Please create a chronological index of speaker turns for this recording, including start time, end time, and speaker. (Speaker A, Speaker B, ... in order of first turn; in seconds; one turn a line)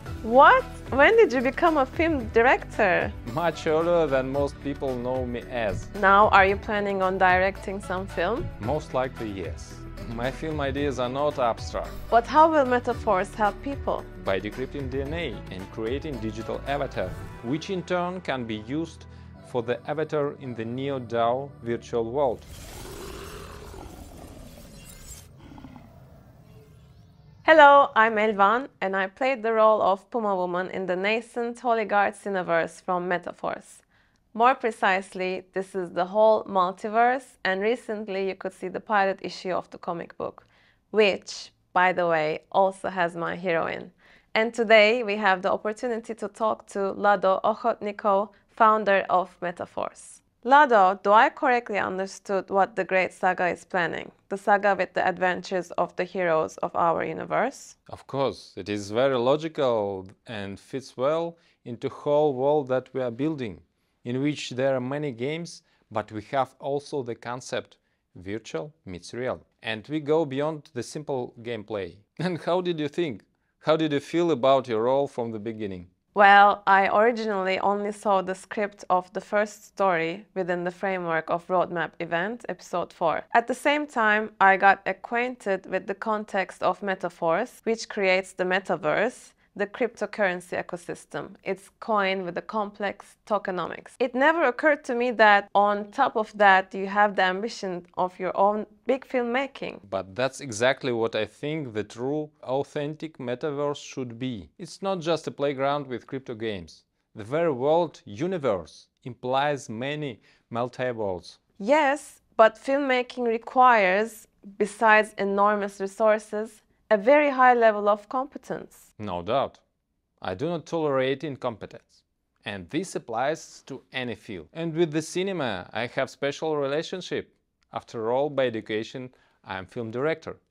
Speaker A: 0.2-3.1
Speaker B: 3.2-5.9
Speaker A: 5.9-8.5
Speaker B: 8.6-11.9
Speaker A: 12.1-14.1
Speaker B: 14.2-22.5
Speaker A: 27.4-33.8
Speaker A: 34.3-57.8
Speaker B: 57.9-75.9
Speaker A: 76.1-99.8
Speaker B: 99.8-111.4
Speaker A: 111.6-118.9
Speaker B: 119.0-119.6
Speaker B: 120.2-130.4